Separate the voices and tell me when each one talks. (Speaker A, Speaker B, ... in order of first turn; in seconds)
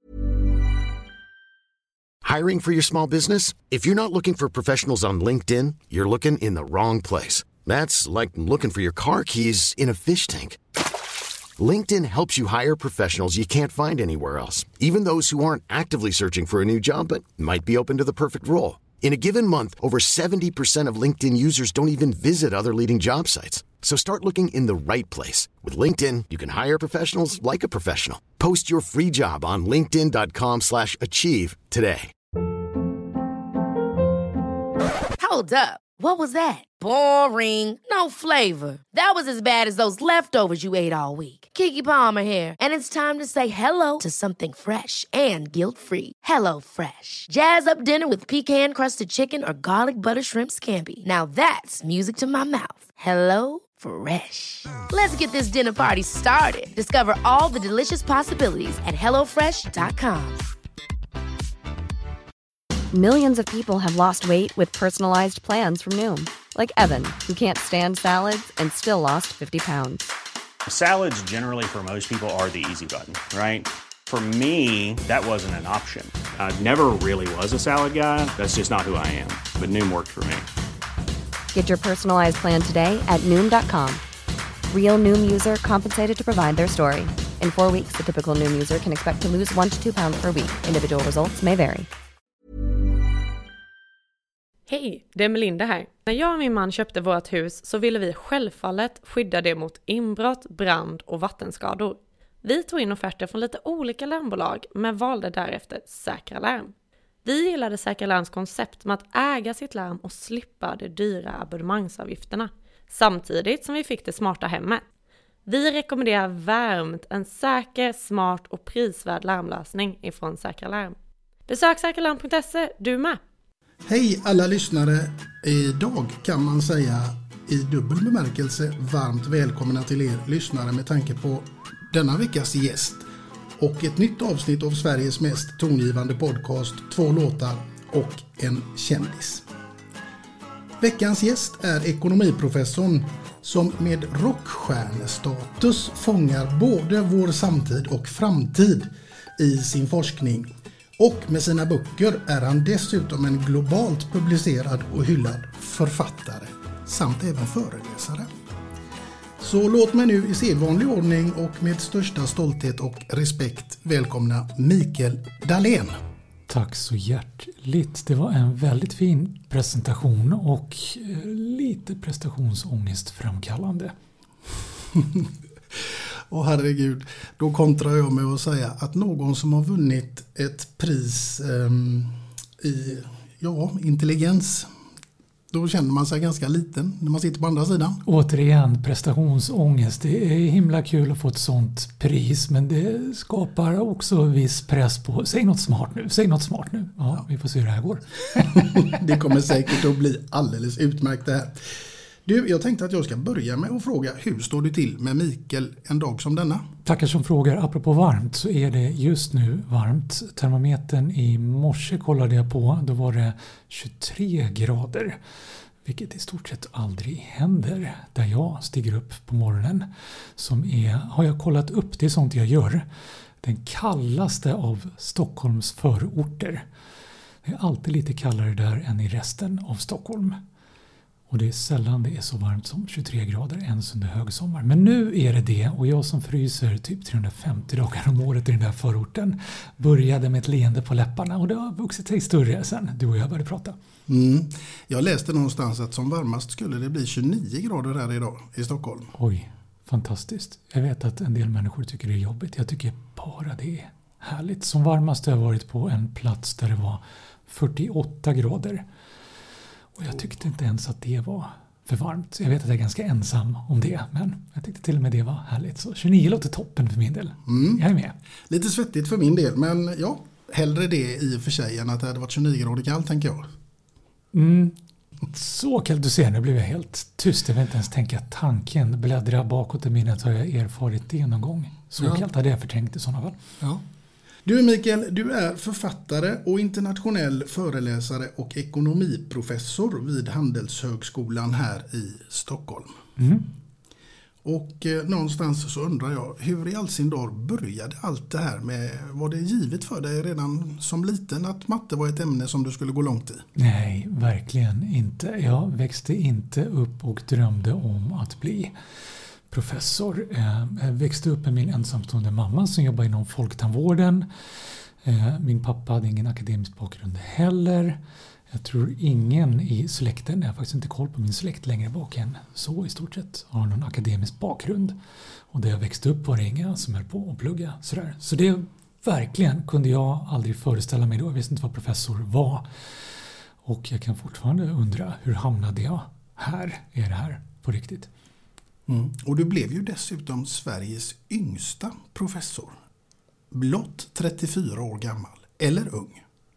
Speaker A: 2.2-10.6, 11.6-32.1
Speaker B: 35.2-60.4
Speaker C: 62.9-70.0, 81.5-84.0, 84.7-91.9
Speaker D: 70.7-80.5
Speaker E: 94.7-106.7, 107.2-114.8, 115.5-121.0, 121.5-123.2
Speaker F: 123.8-133.0, 133.6-139.4, 140.8-158.3, 159.4-165.9, 174.9-184.7, 185.5-188.0, 198.5-206.7, 244.1-249.1, 267.5-267.8, 268.5-273.5, 282.0-282.2, 284.4-292.9, 294.4-303.4, 338.9-342.8, 343.5-346.2
Speaker G: 166.5-173.9, 188.0-198.9, 206.8-215.2, 215.8-222.9, 223.4-226.7, 227.4-230.4, 231.3-243.8, 249.1-258.8, 259.9-268.1, 274.3-274.8, 275.3-283.4, 293.2-293.5, 303.6-308.7, 309.5-314.3, 315.0-318.0, 318.5-325.0, 325.5-333.1, 333.6-338.1